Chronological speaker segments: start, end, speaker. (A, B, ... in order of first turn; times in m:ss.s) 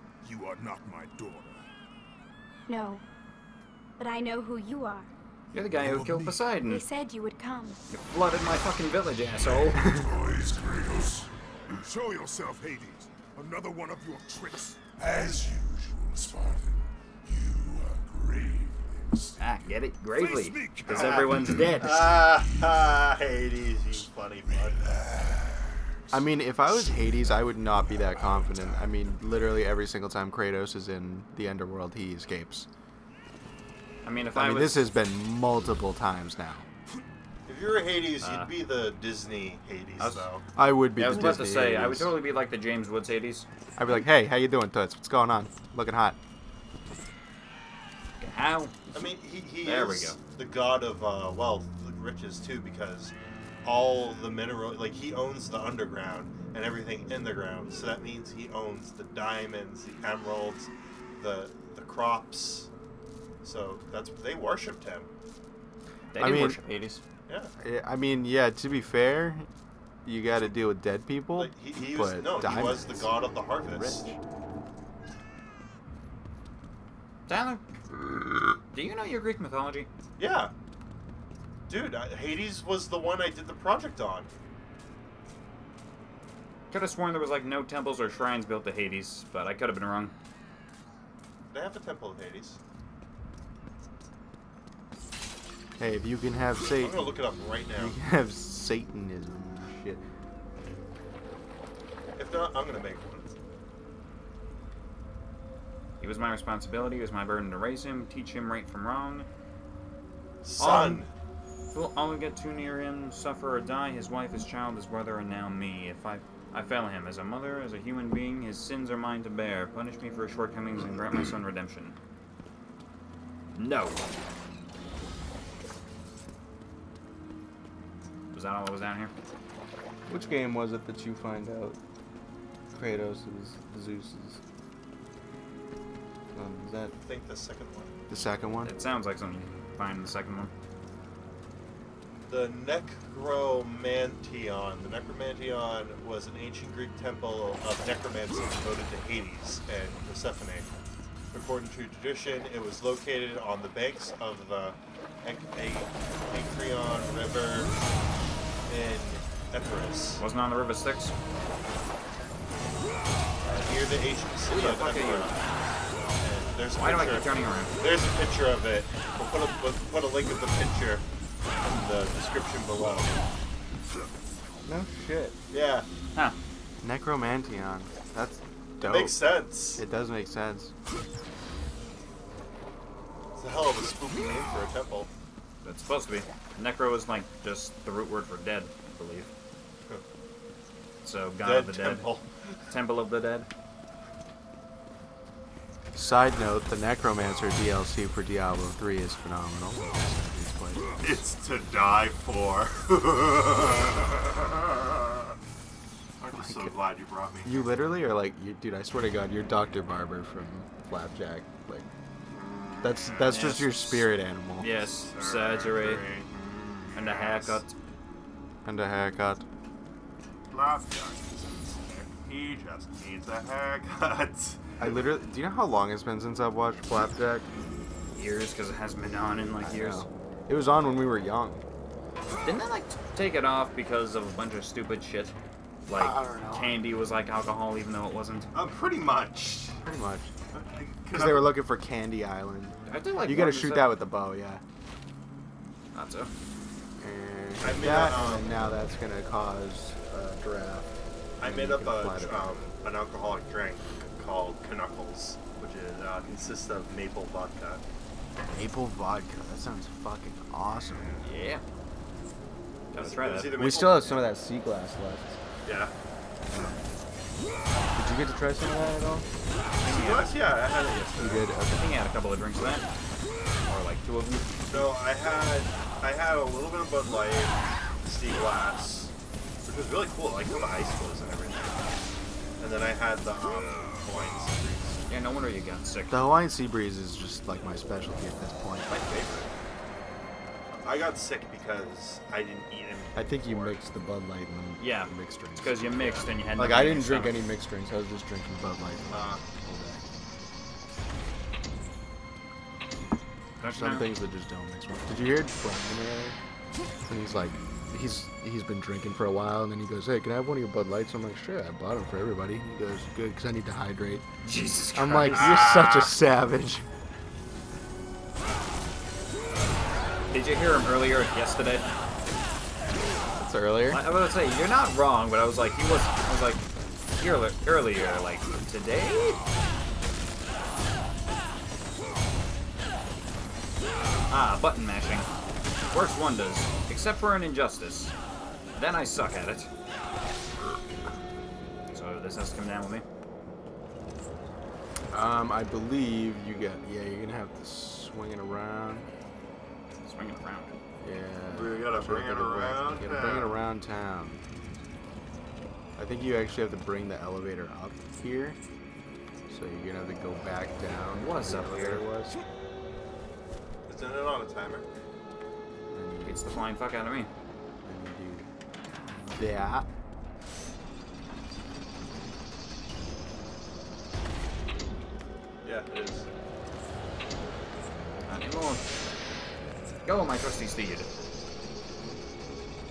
0:00.2-0:01.6 A
0:02.7-0:03.0 B
0:04.0-0:05.1 B
0:05.5-0:06.8 C
0:05.5-0:06.4 A
0:06.6-0:07.8 B
0:07.9-0:09.9 C
0:09.5-0:21.9 A
0:19.4-0:22.1 C
0:20.9-0:24.9 D
0:24.5-0:26.2 A
0:26.1-0:32.7 E
0:26.7-0:29.3 A
0:34.0-0:34.8 C
0:34.3-0:36.7 E
0:37.5-0:40.4 D
0:38.2-0:38.5 C
0:40.0-0:40.2 C
0:40.6-0:42.1 E
0:41.0-0:43.5 C
0:43.8-0:46.2 E
0:48.2-0:48.8 C
0:48.9-1:02.7 D
0:49.6-0:50.2 C
1:03.4-1:05.1 D
1:06.1-1:07.0 C
1:06.2-1:06.6 E
1:07.6-1:09.5 E
1:10.0-1:14.2 E
1:11.4-1:14.1 D
1:17.3-1:17.6 C
1:18.7-1:19.9 C
1:20.2-1:20.5 D
1:21.7-1:24.3 D
1:26.7-1:30.1 C
1:31.5-1:32.6 D
1:35.8-1:37.2 E
1:36.6-1:38.0 D
1:37.8-1:40.0 E
1:42.2-1:43.2 D
1:46.0-1:49.3 C
1:50.4-1:51.1 D
1:50.6-1:51.0 C
1:51.7-2:02.0 C
2:03.5-2:04.0 C
2:08.3-2:09.1 C
2:10.0-2:11.8 E
2:12.7-2:14.4 E
2:16.3-2:16.9 E
2:17.0-2:18.0 D
2:18.1-2:18.7 E
2:18.6-2:20.5 C
2:22.3-2:30.7 D
2:31.3-2:37.8 D
2:38.7-2:40.2 D
2:40.2-2:41.1 C
2:43.4-2:45.4 D
2:44.5-2:45.6 C
2:46.2-2:51.0 D
2:46.8-2:47.7 C
2:51.6-2:53.2 D
2:54.6-2:55.4 E
2:55.5-2:55.9 D
2:56.8-3:00.7 E
2:58.8-2:59.8 D
3:03.4-3:05.1 D
3:05.6-3:09.3 C
3:11.0-3:12.1 C
3:11.4-3:12.2 D
3:12.7-3:13.5 C
3:15.9-3:21.2 E
3:21.0-3:25.0 D
3:26.2-3:27.7 D
3:26.4-3:26.8 E
3:27.4-3:31.9 E
3:32.8-3:34.9 E
3:33.2-3:36.0 C
3:34.9-3:36.3 D
3:36.9-3:37.6 D
3:36.9-3:37.8 C
3:38.6-3:39.4 E
3:40.5-3:45.0 D
3:44.8-3:47.5 E
3:48.1-3:50.0 C
3:49.6-3:51.6 E
3:52.4-3:55.3 C
3:55.9-3:58.5 C
3:55.9-3:56.8 E
3:58.5-3:59.8 D
3:59.8-4:00.3 E
4:00.5-4:01.6 D
4:01.1-4:04.6 E
4:02.9-4:04.0 C
4:05.9-4:06.3 C
4:07.0-4:12.6 E
4:07.6-4:08.6 D
4:11.4-4:17.8 D
4:18.4-4:21.2 E
4:21.2-4:21.6 C
4:22.9-4:23.6 C
4:23.0-4:24.3 D
4:23.5-4:25.4 E
4:25.6-4:25.9 D
4:26.5-4:26.9 E
4:28.0-4:29.3 E
4:29.8-4:30.5 C
4:29.8-4:31.5 D
4:31.2-4:32.0 E
4:31.8-4:32.9 C
4:33.7-4:34.9 C
4:34.7-4:39.1 D
4:39.7-4:41.9 D
4:42.6-4:45.0 D
4:45.1-4:46.2 C
4:46.1-4:48.9 E
4:48.9-4:49.5 C
4:50.8-4:53.8 D
4:53.2-4:55.9 E
4:54.8-4:57.4 C
4:56.6-5:00.0 E
4:59.1-4:59.4 D
5:03.6-5:04.1 C
5:03.6-5:06.4 E
5:07.1-5:14.2 E
5:14.4-5:16.1 C
5:15.0-5:16.8 E
5:15.4-5:15.7 D
5:20.3-5:21.8 C
5:23.4-5:24.0 E
5:23.9-5:26.6 C
5:27.2-5:29.4 C
5:34.3-5:35.3 C
5:35.9-5:38.1 C
5:38.8-5:39.7 C
5:41.9-5:43.0 C
5:45.1-5:49.1 E
5:50.0-5:50.8 C
5:51.0-5:54.4 E
5:51.5-5:53.6 D
5:56.0-5:58.6 E
5:59.5-6:02.4 E
6:01.1-6:02.0 C
6:03.9-6:04.8 D
6:05.9-6:06.4 E
6:06.2-6:07.3 C
6:07.8-6:08.5 E
6:09.1-6:09.9 E
6:15.6-6:16.3 D
6:18.3-6:18.8 C
6:20.0-6:21.1 C